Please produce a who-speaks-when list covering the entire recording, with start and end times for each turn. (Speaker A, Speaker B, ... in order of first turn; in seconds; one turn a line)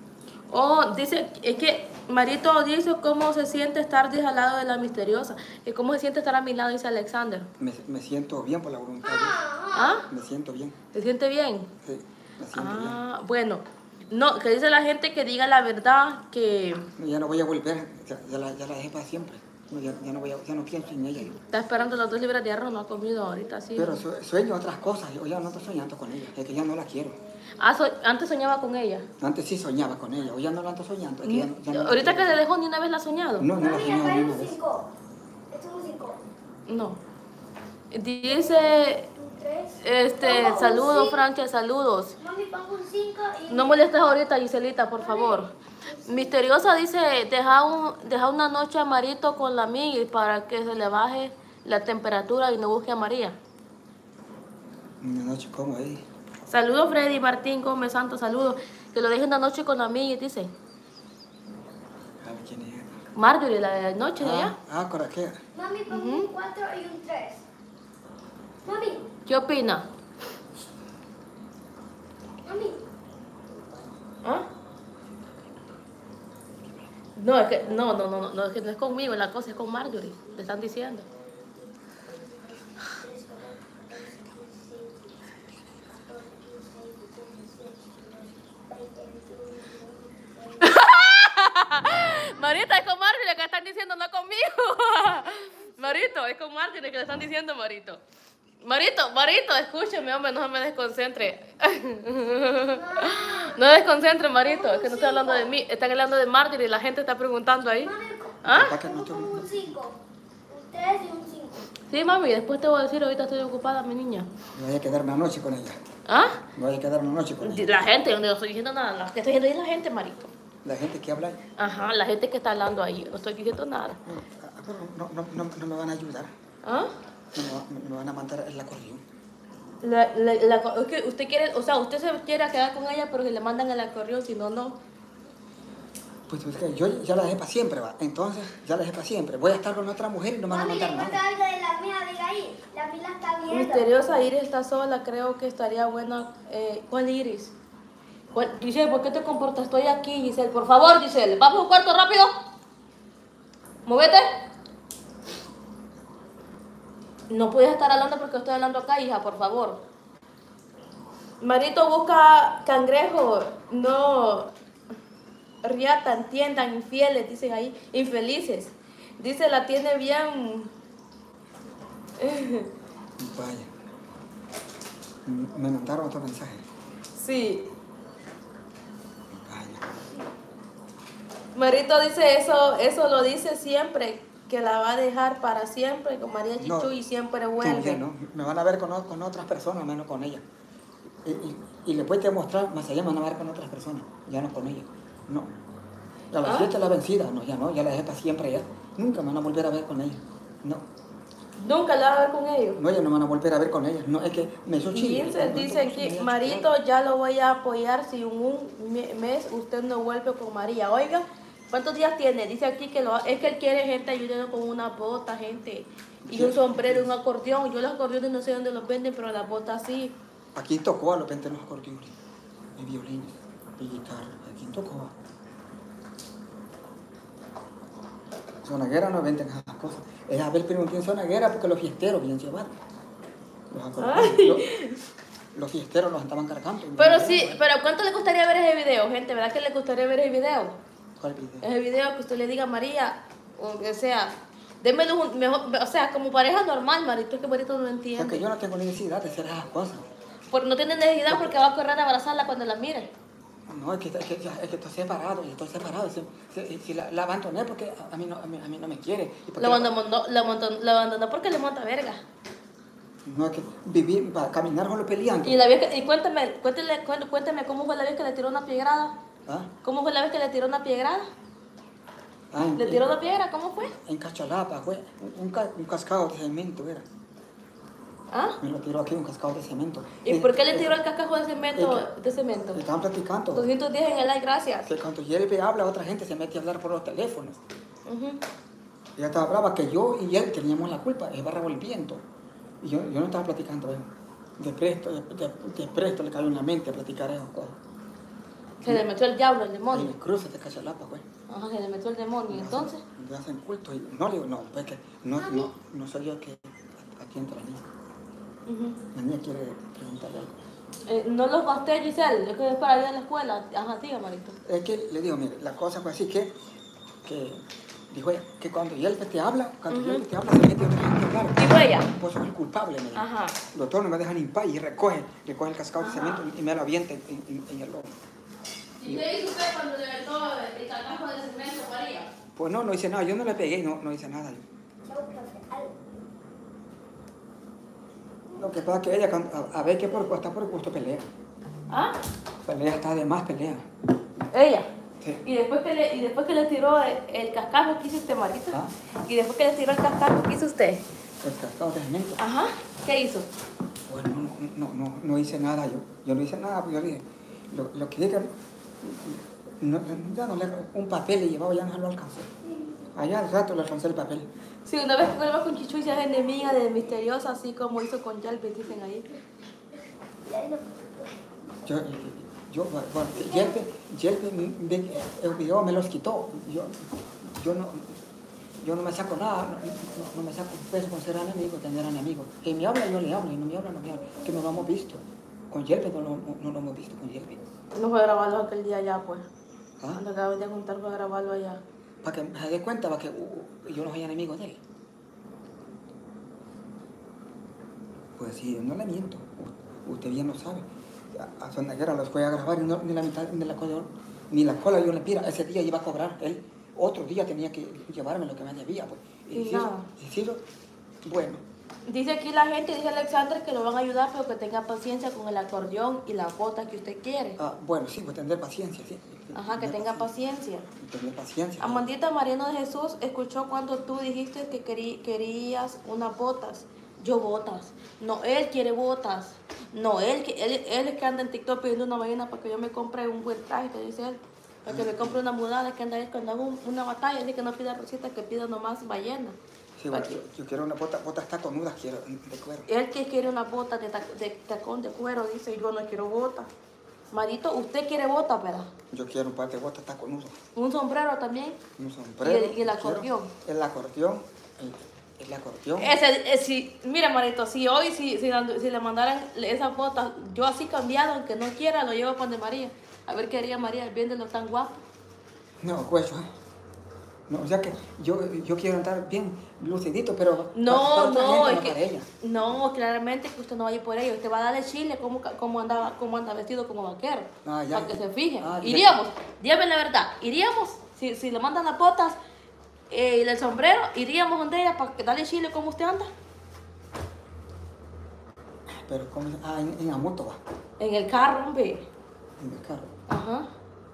Speaker A: 0.5-7.5
Speaker B: 7.6-9.4
Speaker C: 9.1-10.0
Speaker A: 9.7-10.1
Speaker B: 10.1-10.8
Speaker A: 10.9-11.7
Speaker B: 11.8-13.0
Speaker A: 12.5-16.9
Speaker B: 17.0-21.4
Speaker A: 21.5-24.0
Speaker B: 23.8-27.2
Speaker A: 27.6-29.1
Speaker B: 29.2-32.4
Speaker A: 31.2-33.5
Speaker B: 33.4-34.5
Speaker C: 33.5-34.9
Speaker C: 35.5-36.2
Speaker A: 36.7-37.0
Speaker A: 37.9-39.1
Speaker C: 38.3-41.2
Speaker A: 39.8-42.1
Speaker C: 42.2-43.9
Speaker A: 43.5-45.5
Speaker C: 45.0-46.4
Speaker A: 46.1-53.4
Speaker B: 55.0-56.1
Speaker A: 56.5-60.5
Speaker B: 62.2-63.0
Speaker A: 63.1-64.5
Speaker B: 64.2-65.4
Speaker C: 65.5-67.5
Speaker A: 65.9-66.3
Speaker C: 68.7-69.1
Speaker A: 69.3-69.9
Speaker C: 72.4-72.8
Speaker C: 73.5-73.9
Speaker A: 77.2-81.0
Speaker C: 77.8-78.2
Speaker C: 82.1-85.2
Speaker C: 85.9-90.8
Speaker A: 90.6-98.0
Speaker A: 98.6-108.8
Speaker C: 102.6-103.6
Speaker C: 104.4-105.5
Speaker C: 107.8-110.0
Speaker B: 108.5-109.8
Speaker C: 110.5-111.7
Speaker A: 111.9-114.3
Speaker B: 114.5-115.8
Speaker A: 116.1-116.5
Speaker B: 116.5-117.8
Speaker A: 117.4-120.3
Speaker B: 120.6-121.5
Speaker A: 121.6-124.0
Speaker B: 124.0-126.3
Speaker A: 126.7-126.9
Speaker B: 127.3-129.0
Speaker A: 129.8-134.8
Speaker B: 136.3-141.2
Speaker C: 140.5-144.2
Speaker A: 143.5-147.5
Speaker A: 148.3-152.3
Speaker A: 153.9-154.4
Speaker A: 157.3-159.8
Speaker A: 161.4-164.5
Speaker A: 165.6-170.7
Speaker A: 172.2-172.7
Speaker B: 173.2-173.7
Speaker B: 175.2-176.7
Speaker A: 177.2-177.7
Speaker B: 179.3-180.0
Speaker A: 181.5-188.0
Speaker B: 186.6-186.9
Speaker B: 187.6-190.4
Speaker B: 191.2-195.5
Speaker B: 196.3-200.9
Speaker A: 196.4-196.7
Speaker A: 201.6-202.8
Speaker B: 202.8-206.7
Speaker A: 204.9-220.2
Speaker B: 216.2-217.1
Speaker B: 220.5-222.2
Speaker B: 222.8-225.2
Speaker B: 228.6-232.7
Speaker B: 233.7-234.7
Speaker A: 234.0-235.0
Speaker B: 235.5-237.6
Speaker A: 237.0-240.8
Speaker B: 241.2-241.7
Speaker A: 241.6-248.4
Speaker B: 248.2-250.0
Speaker A: 250.5-253.1
Speaker B: 251.3-251.5
Speaker B: 253.7-259.9
Speaker A: 259.6-262.2
Speaker B: 263.2-265.6
Speaker A: 265.4-269.1
Speaker B: 269.5-269.7
Speaker A: 269.8-271.3
Speaker B: 272.5-273.1
Speaker A: 272.8-273.9
Speaker B: 274.0-277.1
Speaker A: 278.3-278.6
Speaker B: 278.6-281.0
Speaker A: 280.2-282.8
Speaker B: 281.8-282.1
Speaker B: 282.7-283.7
Speaker A: 283.5-284.9
Speaker B: 284.9-287.6
Speaker A: 288.1-288.4
Speaker B: 289.2-292.2
Speaker B: 292.8-297.8
Speaker A: 298.8-300.1
Speaker B: 299.9-301.2
Speaker A: 301.5-303.0
Speaker B: 302.5-307.9
Speaker A: 308.7-309.0
Speaker B: 309.1-310.6
Speaker A: 311.1-314.6
Speaker B: 314.6-316.6
Speaker B: 317.2-328.1
Speaker A: 319.9-320.2
Speaker A: 321.6-322.1
Speaker A: 323.1-323.6
Speaker A: 326.0-326.4
Speaker A: 329.0-332.3
Speaker B: 332.6-334.7
Speaker C: 335.1-335.9
Speaker B: 338.6-341.3
Speaker A: 341.9-342.1
Speaker B: 342.6-343.9
Speaker A: 344.5-344.9
Speaker A: 345.4-351.0
Speaker B: 351.4-352.4
Speaker A: 352.4-353.5
Speaker B: 354.1-362.5
Speaker B: 363.1-364.5
Speaker A: 364.9-369.2
Speaker C: 370.4-371.3
Speaker B: 371.8-378.2
Speaker B: 378.8-387.6
Speaker A: 387.9-389.5
Speaker A: 390.1-391.8
Speaker B: 392.2-394.8
Speaker B: 398.4-410.6
Speaker A: 409.5-410.1
Speaker B: 411.2-411.6
Speaker A: 412.1-417.6
Speaker B: 417.6-420.3
Speaker A: 419.5-420.9
Speaker B: 420.9-422.1
Speaker A: 421.8-439.6
Speaker B: 434.9-435.4
Speaker B: 440.0-442.9
Speaker A: 440.1-440.4
Speaker A: 442.9-446.7
Speaker A: 447.3-448.9
Speaker B: 449.1-450.6
Speaker A: 450.8-451.8
Speaker B: 452.0-456.1
Speaker A: 452.4-453.5
Speaker A: 456.0-464.9
Speaker B: 465.8-466.5
Speaker B: 467.5-472.3
Speaker A: 470.8-482.4
Speaker B: 477.6-479.2
Speaker A: 483.1-486.3
Speaker B: 488.9-490.6
Speaker A: 491.0-492.1
Speaker B: 492.6-493.1
Speaker A: 493.3-493.7